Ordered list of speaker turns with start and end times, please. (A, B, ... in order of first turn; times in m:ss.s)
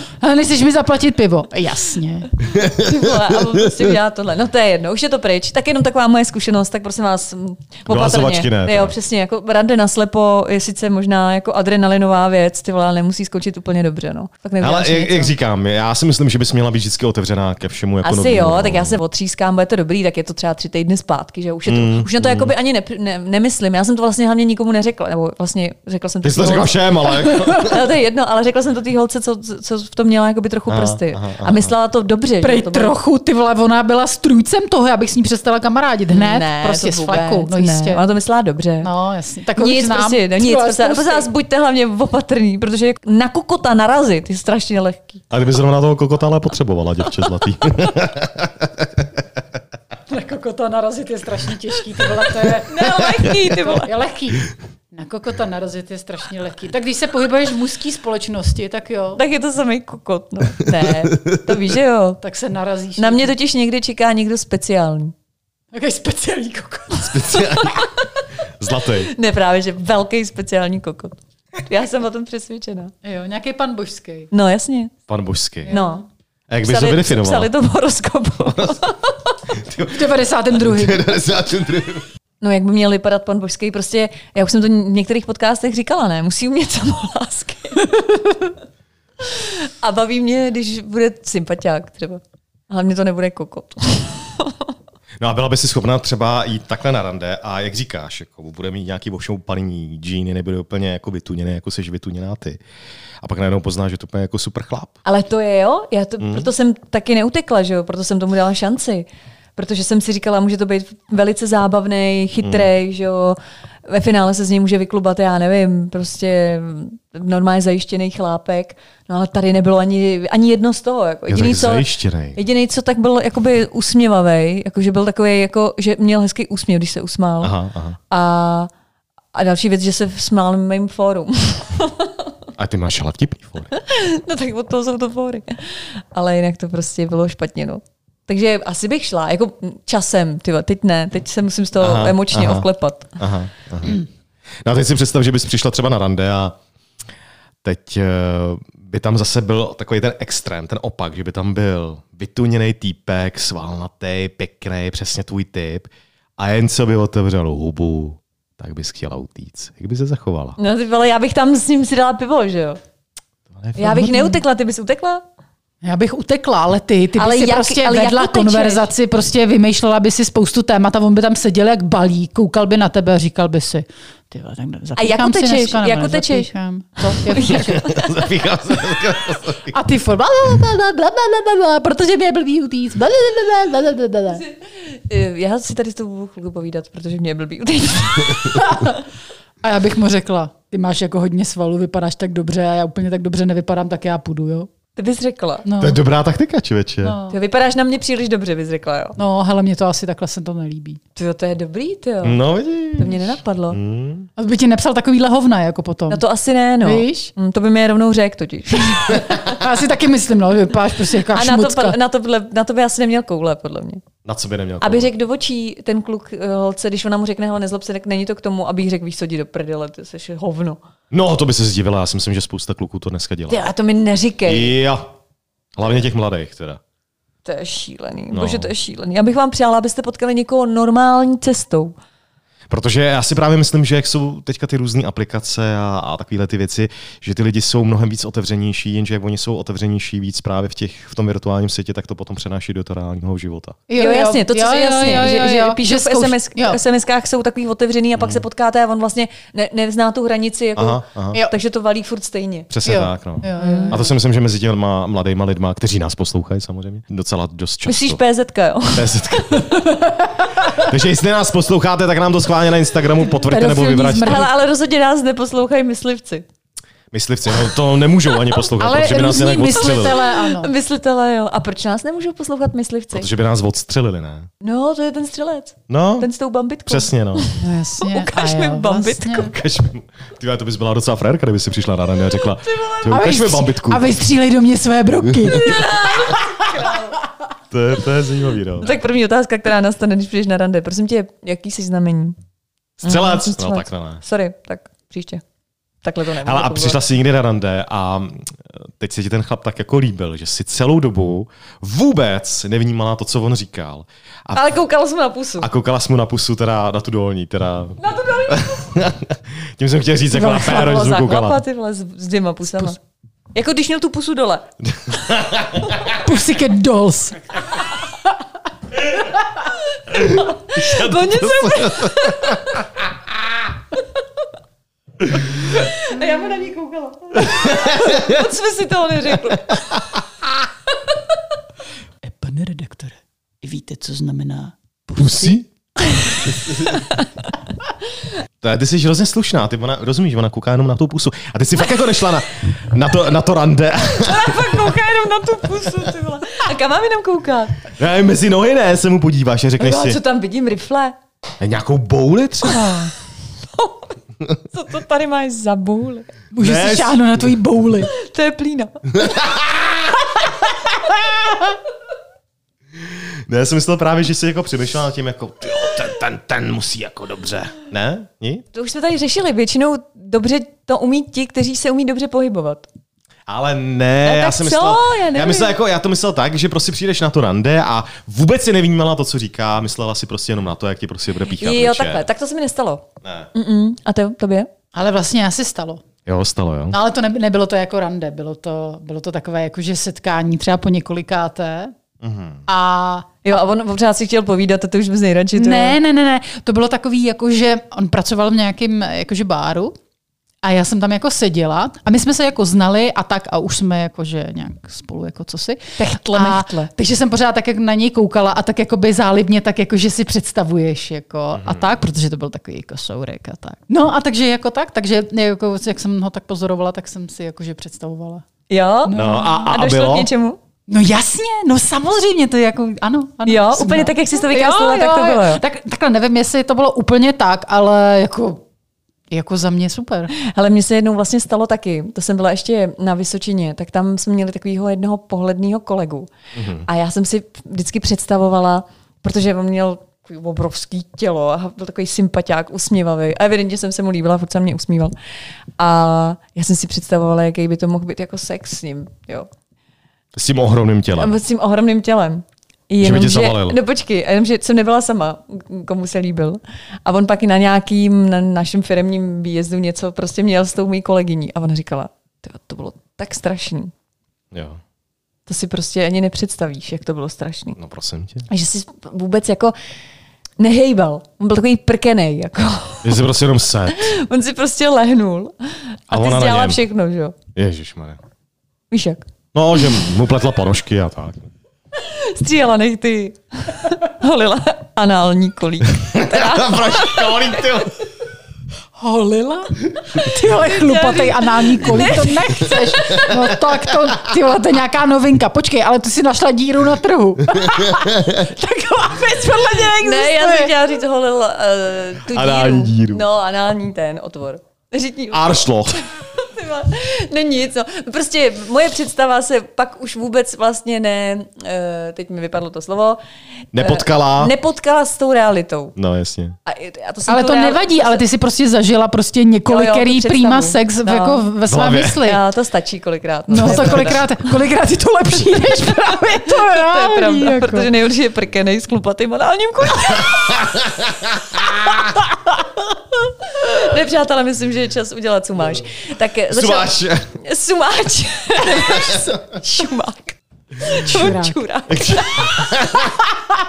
0:00.2-0:02.3 A
0:02.4-0:15.3 B
0:02.4-0:03.5 C
0:07.9-0:08.9 C
0:14.6-0:19.0 C
0:18.0-0:26.8 B
0:21.7-0:22.5 C
0:26.2-0:27.8 C
0:27.6-0:33.0 B
0:30.7-0:31.7 C
0:32.4-0:38.0 A
0:36.1-0:38.9 B
0:38.8-0:41.3 A
0:39.5-0:45.2 B
0:45.3-0:49.2 C
0:50.1-0:59.2 A
0:52.7-0:53.9 B
0:59.2-1:02.2 B
1:01.1-1:01.4 C
1:02.2-1:03.3 A
1:03.0-1:05.1 B
1:05.7-1:07.4 A
1:07.0-1:07.8 C
1:07.4-1:07.9 B
1:08.6-1:09.1 C
1:09.0-1:12.9 B
1:13.0-1:14.3 A
1:14.3-1:14.9 B
1:15.1-1:15.7 C
1:15.6-1:16.0 A
1:15.7-1:16.0 B
1:16.5-1:17.5 C
1:16.6-1:19.3 B
1:19.5-1:22.0 C
1:19.9-1:21.1 A
1:22.4-1:28.5 B
1:29.2-1:34.7 B
1:35.2-1:42.6 C
1:43.2-1:44.9 C
1:45.0-1:49.0 B
1:46.2-1:46.5 C
1:49.6-2:07.5 B
1:52.4-1:52.7 C
2:01.3-2:02.4 C
2:07.4-2:08.0 C
2:08.1-2:08.7 B
2:09.3-2:12.3 B
2:12.6-2:13.7 C
2:13.7-2:23.2 B
2:21.8-2:22.7 C
2:23.2-2:24.0 C
2:24.6-2:26.6 C
2:27.6-2:40.6 C
2:40.6-2:42.8 B
2:43.6-2:44.3 C
2:43.8-2:45.2 B
2:45.8-2:57.8 A
2:47.2-2:48.8 B
2:55.0-2:56.5 B
2:57.0-2:58.2 B
2:57.5-2:59.8 C
2:59.7-3:04.4 A
3:04.4-3:08.9 B
3:08.5-3:09.0 A
3:09.6-3:14.7 A
3:15.0-3:15.7 B
3:15.6-3:16.0 A
3:15.8-3:17.2 C
3:17.0-3:17.4 A
3:17.3-3:19.2 B
3:19.2-3:21.0 A
3:21.2-3:22.4 B
3:22.2-3:24.3 C
3:22.9-3:23.8 B
3:24.4-3:26.2 A
3:26.1-3:29.6 B
3:26.8-3:27.3 A
3:29.3-3:32.0 A
3:31.3-3:34.0 B
3:34.2-3:35.1 C
3:34.8-3:40.8 B
3:41.1-3:43.7 C
3:43.5-3:44.7 B
3:44.4-3:45.0 C
3:45.8-3:46.8 C
3:47.4-3:51.9 B
3:48.3-3:48.7 C
3:52.7-4:03.8 C
4:03.9-4:06.8 A
4:04.0-4:12.7 B
4:10.8-4:11.4 C
4:12.7-4:18.2 C
4:12.8-4:14.0 A
4:13.6-4:14.0 B
4:17.8-4:20.0 B
4:18.9-4:19.7 C
4:20.6-4:24.5 C
4:23.3-4:24.5 A
4:24.2-4:26.4 B
4:27.1-4:30.2 C
4:28.8-4:30.7 A
4:29.8-4:33.3 B
4:33.1-4:34.5 C
4:34.6-4:39.5 B
4:35.9-4:36.3 C
4:36.9-4:37.5 C
4:37.6-4:39.5 A
4:39.4-4:44.1 C
4:42.6-4:43.3 B
4:43.1-4:46.4 A
4:45.5-4:47.2 B
4:47.7-4:48.9 C
4:48.8-4:52.4 B
4:53.0-4:54.2 C
4:53.0-4:55.4 B
4:56.0-4:57.0 B
4:56.4-5:04.6 C
5:04.5-5:05.7 B
5:05.6-5:11.6 C
5:08.0-5:08.9 B
5:10.3-5:13.0 B
5:13.5-5:14.7 B
5:14.9-5:16.2 C
5:16.2-5:17.6 A
5:20.1-5:22.9 C
5:20.3-5:22.8 B
5:25.5-5:30.0 B
5:27.4-5:28.4 C
5:29.9-5:30.2 C
5:32.2-5:35.6 A
5:35.2-5:35.7 C
5:36.1-5:37.2 B
5:36.4-5:36.9 C
5:38.6-5:44.8 C
5:44.1-5:47.9 B
5:48.0-5:50.2 C
5:49.8-5:51.2 B
5:51.6-5:52.8 C
5:52.7-5:53.1 A
5:53.7-5:54.1 B
5:54.7-5:56.3 B
5:56.5-5:58.1 A
5:56.6-5:57.4 C
5:58.1-5:59.0 B
5:59.1-6:00.2 C
6:03.1-6:08.6 C
6:08.7-6:12.9 B
6:13.5-6:22.2 C
6:14.2-6:15.7 B
6:21.6-6:24.7 B
6:23.2-6:23.5 C
6:24.9-6:26.0 A
6:26.2-6:27.0 C
6:26.9-6:31.9 A
6:32.2-6:32.6 C
6:32.7-6:33.3 A
6:33.4-6:36.0 B
6:35.5-6:39.9 A
6:40.6-6:58.4 A
6:46.0-6:46.8 B
6:51.5-6:51.9 C
6:58.7-7:00.6 B
6:59.0-6:59.7 A
6:59.1-7:00.3 C
7:00.9-7:08.6 A
7:03.4-7:05.6 B
7:09.3-7:10.3 A
7:10.3-7:16.3 B
7:16.5-7:16.9 C
7:16.8-7:25.1 B
7:25.8-7:29.5 B
7:30.4-7:31.4 C
7:31.2-7:43.9 B
7:33.0-7:33.8 C
7:44.5-7:44.8 C
7:45.5-7:47.8 B
7:47.8-7:48.5 C
7:48.5-7:49.8 B
7:50.6-7:53.1 B
7:53.0-7:54.1 C
7:53.9-7:57.4 B
7:56.1-7:56.8 C
7:57.5-7:58.2 C
7:58.9-7:59.2 B
7:59.5-8:01.5 C
8:02.0-8:07.8 B
8:06.0-8:08.0 C
8:09.0-8:20.7 A
8:10.2-8:13.5 B
8:17.6-8:18.5 C
8:19.8-8:25.6 B
8:22.3-8:23.2 C
8:25.3-8:26.1 C
8:26.3-8:33.2 B
8:33.7-8:34.5 C
8:33.8-8:35.9 B
8:36.0-8:36.5 C
8:36.6-8:38.2 B
8:37.3-8:42.4 A
8:39.7-8:41.4 B
8:41.7-8:42.2 C
8:42.2-8:44.3 B
8:43.5-8:47.9 A
8:46.4-8:50.7 B
8:50.2-8:52.1 C
8:53.4-9:02.7 B
8:56.5-8:57.2 C
8:58.8-8:59.2 C
9:00.8-9:01.6 A
9:01.9-9:03.1 C